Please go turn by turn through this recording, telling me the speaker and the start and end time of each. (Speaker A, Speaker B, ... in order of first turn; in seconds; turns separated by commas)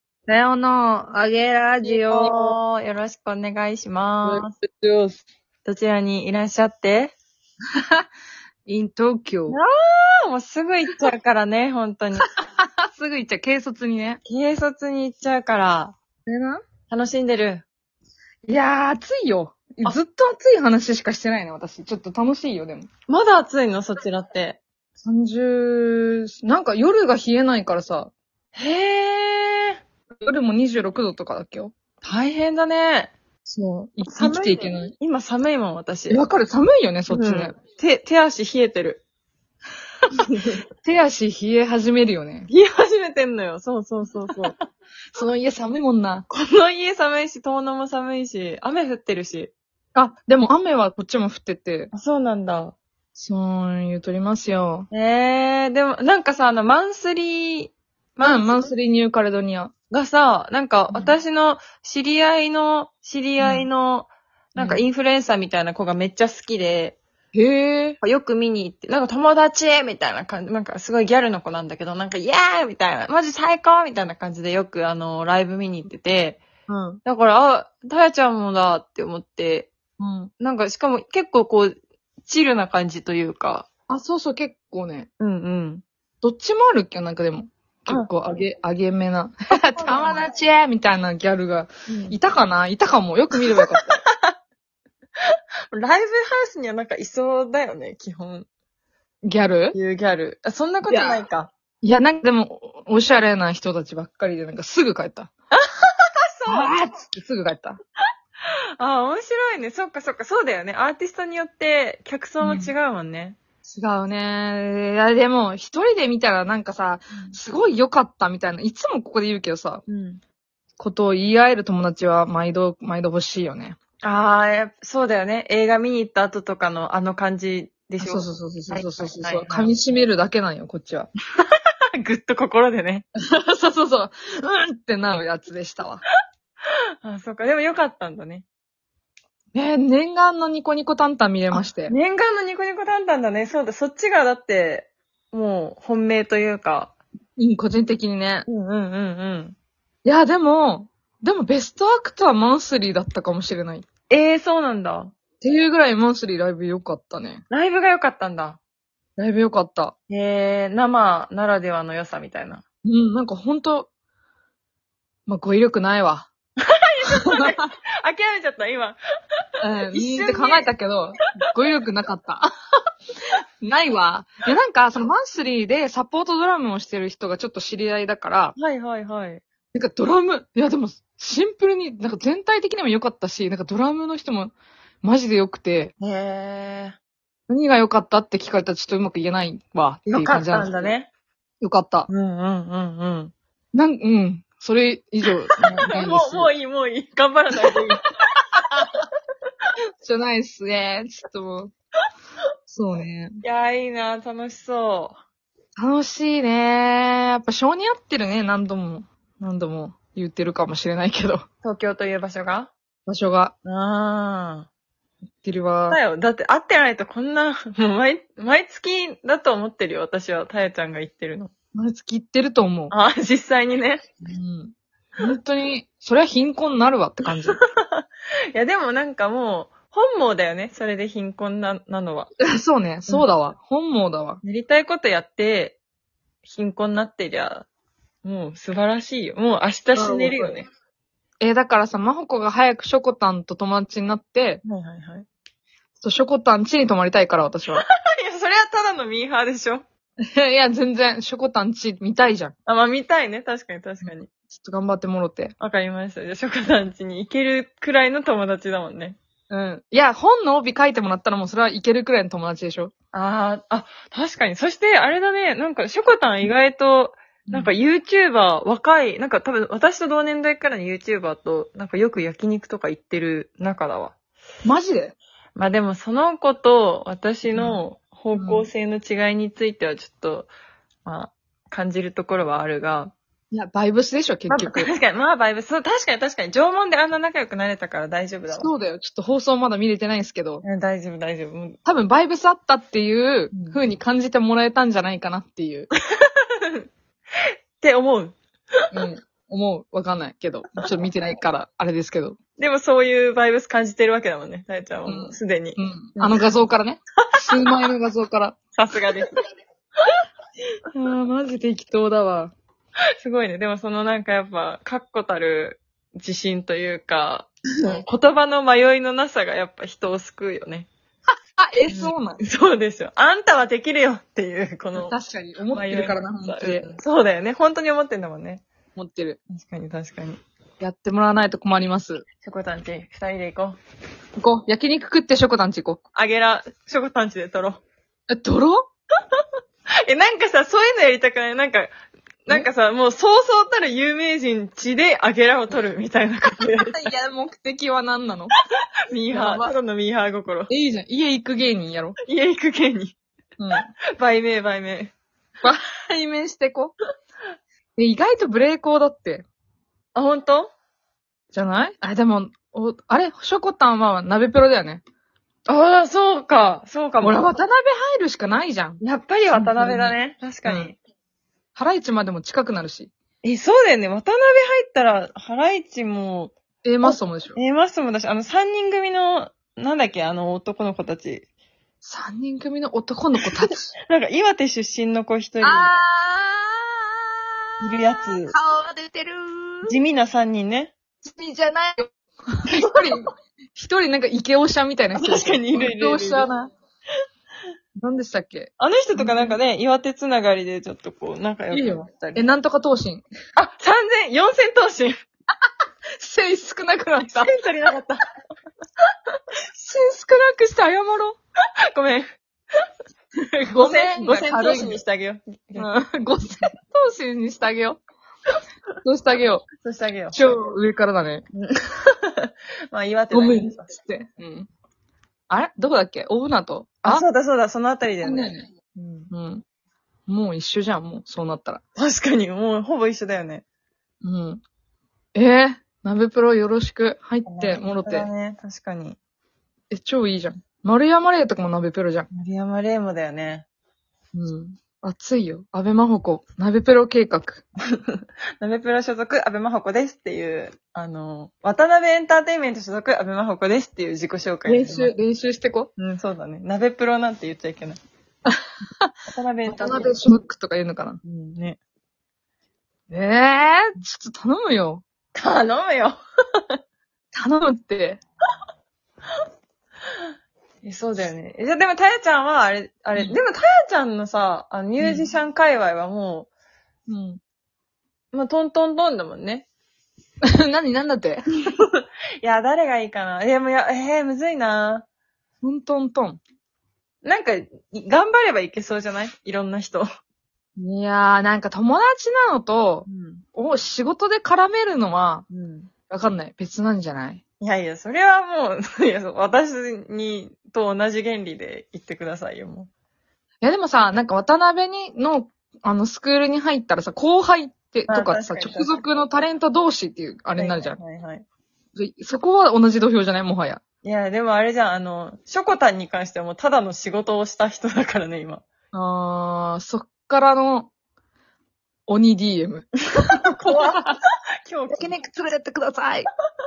Speaker A: 0.3-2.6, Speaker B: 1.8-4.5, Speaker A: 4.2-5.2, Speaker B: 5.6-7.1, Speaker A: 7.8-8.1, Speaker A: 8.7-9.6, Speaker B: 9.5-12.3, Speaker A: 12.2-14.2, Speaker B: 14.2-15.9, Speaker A: 16.2-16.6, Speaker B: 16.9-17.6, Speaker A: 18.4-22.9, Speaker B: 23.1-24.6, Speaker A: 25.0-28.1, Speaker B: 28.5-29.8, Speaker A: 30.2-31.7, Speaker B: 32.0-33.1, Speaker A: 33.4-34.9, Speaker B: 34.1-36.3, Speaker A: 36.1-37.5, Speaker B: 37.1-39.0, Speaker B: 40.1-40.6, Speaker A: 40.8-42.5, Speaker B: 42.5-44.5, Speaker A: 45.1-46.2, Speaker B: 46.3-49.5, Speaker A: 49.9-51.9, Speaker B: 51.9-52.8, Speaker A: 53.1-54.9, Speaker B: 54.9-58.7, Speaker A: 58.2-59.7, Speaker B: 59.9-67.0, Speaker A: 63.4-63.7, Speaker A: 64.6-64.8, Speaker A: 67.3-68.0, Speaker B: 68.0-76.4, Speaker A: 76.7-77.0, Speaker B: 77.0-79.7, Speaker A: 80.0-80.3, Speaker B: 80.4-83.7, Speaker A: 83.9-85.1, Speaker B: 85.2-85.8, Speaker A: 86.2-94.0, Speaker B: 89.8-90.2, Speaker B: 91.9-92.2, Speaker B: 93.5-94.3, Speaker B: 95.7-98.5, Speaker A: 99.2-99.8, Speaker B: 99.7-101.5, Speaker A: 100.9-101.2, Speaker A: 101.8-105.3, Speaker B: 105.5-106.8, Speaker A: 106.5-107.8, Speaker B: 108.8-113.4, Speaker A: 112.4-112.7, Speaker A: 113.7-119.8, Speaker B: 119.9-120.2, Speaker A: 120.8-123.8, Speaker B: 124.0-129.7, Speaker A: 128.0-131.1, Speaker B: 132.0-133.1, Speaker A: 133.2-136.0, Speaker B: 137.0-138.4, Speaker A: 139.5-141.9, Speaker B: 141.5-146.9, Speaker A: 147.4-148.5, Speaker B: 148.5-149.6, Speaker A: 150.0-153.8, Speaker B: 154.1-155.1, Speaker A: 155.4-157.4, Speaker B: 157.5-158.6, Speaker A: 159.2-159.9, Speaker B: 160.1-162.6, Speaker A: 162.8-163.9, Speaker A: 165.3-166.3, Speaker B: 166.7-169.0, Speaker A: 167.2-167.6, Speaker A: 169.6-172.5, Speaker B: 169.9-170.7, Speaker A: 173.6-178.6, Speaker B: 178.6-179.4, Speaker A: 179.7-185.9, Speaker B: 186.0-186.9, Speaker A: 187.5-190.9, Speaker B: 190.1-191.1, Speaker A: 191.6-192.1, Speaker B: 192.1-193.3, Speaker A: 193.7-196.5, Speaker B: 195.9-198.1, Speaker B: 198.7-199.0, Speaker A: 200.0-201.7, Speaker A: 202.7-203.4, Speaker B: 203.4-205.2, Speaker A: 205.8-211.4, Speaker B: 211.6-212.7, Speaker A: 213.1-213.5, Speaker B: 213.6-214.7, Speaker A: 215.4-216.0, Speaker B: 215.9-221.5, Speaker A: 221.7-222.9, Speaker B: 222.9-224.1, Speaker A: 224.3-227.6, Speaker B: 227.5-232.3, Speaker A: 232.4-234.4, Speaker B: 234.4-235.8, Speaker B: 236.4-237.7, Speaker B: 238.2-240.7, Speaker A: 239.9-240.6, Speaker A: 241.4-244.6, Speaker B: 244.6-245.2, Speaker A: 246.0-247.8, Speaker B: 247.7-249.8, Speaker A: 250.3-252.5, Speaker B: 252.7-254.3, Speaker A: 254.5-255.5, Speaker B: 255.6-259.2, Speaker A: 259.5-262.9, Speaker B: 263.1-274.1, Speaker A: 267.5-267.7, Speaker A: 274.6-275.1, Speaker B: 275.6-280.5, Speaker A: 277.5-277.8, Speaker A: 278.3-278.7, Speaker B: 281.0-283.1, Speaker A: 283.5-284.9, Speaker B: 284.5-288.7, Speaker A: 288.5-290.6, Speaker B: 290.6-291.8, Speaker A: 291.8-295.9, Speaker B: 293.5-293.8, Speaker B: 296.2-296.9, Speaker B: 297.8-298.4, Speaker A: 298.9-302.4, Speaker B: 302.6-306.4, Speaker A: 305.0-308.6, Speaker B: 308.7-309.3, Speaker A: 310.9-312.5, Speaker B: 313.2-320.9, Speaker A: 321.6-322.4, Speaker B: 321.9-325.1, Speaker A: 324.9-326.9, Speaker B: 325.7-328.6, Speaker A: 328.9-329.4, Speaker B: 329.5-330.4, Speaker A: 330.8-332.2, Speaker B: 332.4-333.8, Speaker A: 334.4-336.0, Speaker B: 336.1-337.8, Speaker A: 338.3-338.9, Speaker B: 340.0-341.9, Speaker B: 342.4-347.1, Speaker A: 346.7-348.5, Speaker B: 349.1-350.7, Speaker A: 349.3-349.7, Speaker A: 350.7-352.2, Speaker B: 352.2-353.2, Speaker A: 353.6-353.9, Speaker B: 354.2-355.1, Speaker A: 355.6-356.9, Speaker A: 357.9-359.4, Speaker B: 360.1-360.7, Speaker A: 361.5-365.0, Speaker B: 365.6-367.5, Speaker A: 367.2-370.9, Speaker B: 369.0-371.0, Speaker A: 371.7-373.1, Speaker B: 373.4-381.4, Speaker A: 376.8-377.6, Speaker A: 382.0-383.9, Speaker B: 384.1-385.9, Speaker A: 385.6-389.9, Speaker B: 387.8-388.5, Speaker B: 389.9-390.9, Speaker A: 391.2-396.7, Speaker B: 395.1-396.5, Speaker A: 398.0-399.6, Speaker B: 398.8-402.5, Speaker A: 401.7-403.2, Speaker B: 403.6-405.1, Speaker A: 406.2-407.5, Speaker B: 407.2-408.2, Speaker A: 409.8-411.4, Speaker B: 411.9-412.3, Speaker A: 413.4-415.0, Speaker B: 413.8-415.9, Speaker A: 415.8-418.0, Speaker A: 419.0-419.6, Speaker B: 419.8-420.4, Speaker A: 420.3-421.4, Speaker B: 421.5-423.9, Speaker A: 423.3-424.7, Speaker A: 425.5-427.2, Speaker B: 427.0-429.3, Speaker A: 428.2-428.6, Speaker A: 429.3-429.6, Speaker A: 430.3-431.8, Speaker B: 431.9-433.6, Speaker A: 434.2-434.6, Speaker A: 435.3-438.3, Speaker B: 437.4-439.2, Speaker A: 439.9-442.3, Speaker B: 442.3-443.6, Speaker A: 444.3-447.6, Speaker B: 448.0-455.1, Speaker A: 454.6-455.9, Speaker B: 456.0-458.0, Speaker A: 458.4-459.1, Speaker B: 459.3-460.1, Speaker A: 459.7-461.2, Speaker B: 461.2-461.8, Speaker A: 463.1-465.0, Speaker B: 465.3-466.2, Speaker A: 467.3-468.2, Speaker B: 470.8-476.5, Speaker A: 475.0-475.3, Speaker A: 477.1-477.4, Speaker B: 478.3-479.7, Speaker A: 480.4-481.4, Speaker B: 482.4-485.0, Speaker A: 485.6-486.4, Speaker B: 487.2-490.1, Speaker A: 490.8-495.4, Speaker B: 493.1-493.4, Speaker B: 495.5-495.9, Speaker A: 496.1-497.4, Speaker B: 497.6-502.9, Speaker A: 503.6-511.0, Speaker B: 508.1-509.0, Speaker B: 510.6-511.4, Speaker A: 511.9-513.8, Speaker B: 514.0-518.6, Speaker A: 518.9-520.9, Speaker A: 522.1-522.9, Speaker B: 523.4-525.1, Speaker A: 523.6-524.0, Speaker A: 524.9-526.3